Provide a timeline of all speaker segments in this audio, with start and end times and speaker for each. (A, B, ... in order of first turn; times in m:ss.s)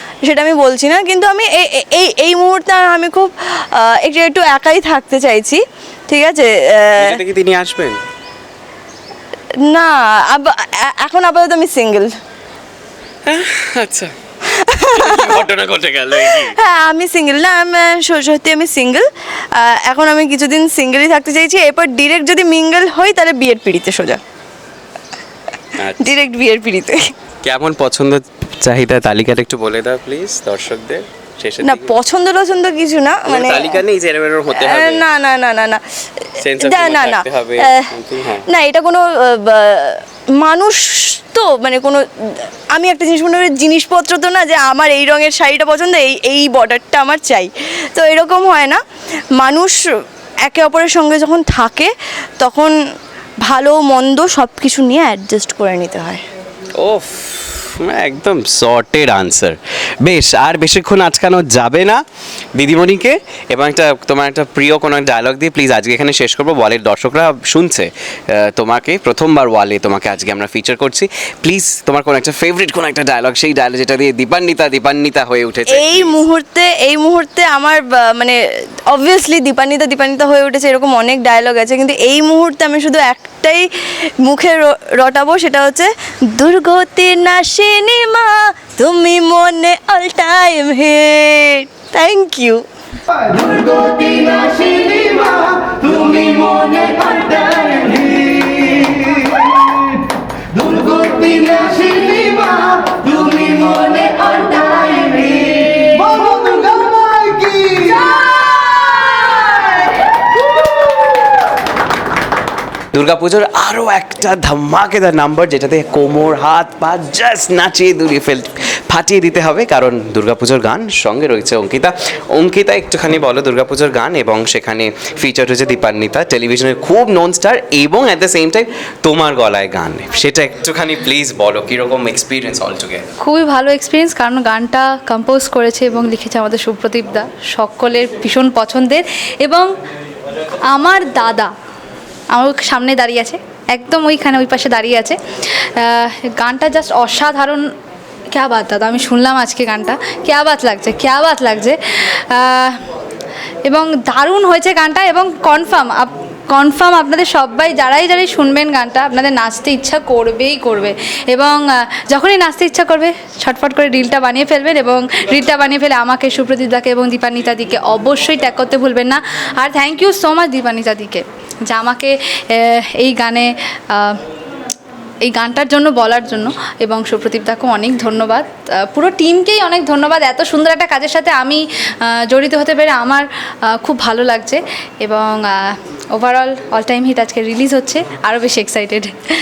0:00.2-0:07.2 A
0:07.0-0:08.0 B
0:09.6-0:12.1 A
0:13.2-0:14.1 B
0:14.5-0:15.4 A
0:14.9-0:16.6 B
0:16.2-0:24.2 A
0:25.8-0:26.2 B
0:26.0-0:27.0 A
0:27.4-0:31.9 B
0:31.6-0:33.8 A
0:33.3-0:35.0 B
0:34.5-0:37.9 A
0:36.4-0:38.4 B
0:38.5-0:42.0 A
0:42.7-0:48.8 A
0:49.4-0:49.8 A
0:50.4-0:52.7 A
0:53.4-0:56.2 A
0:56.8-1:02.0 B
1:02.6-1:16.2 B
1:15.7-1:18.4 A
1:18.9-1:23.7 A
1:24.2-1:32.6 A
1:33.3-1:38.1 A
1:34.5-1:34.9 C
1:35.7-1:36.7 C
1:40.7-1:41.1 C
1:40.9-1:41.9 A
1:41.9-1:43.0 C
1:43.4-1:45.5 A
1:46.2-1:47.8 C
1:52.9-2:13.1 B
2:13.2-2:19.7 D
2:20.7-2:21.5 D
2:22.3-2:25.2 D
2:25.8-2:27.6 D
2:28.3-2:32.8 D
2:33.6-2:54.2 D
2:55.2-3:09.1 D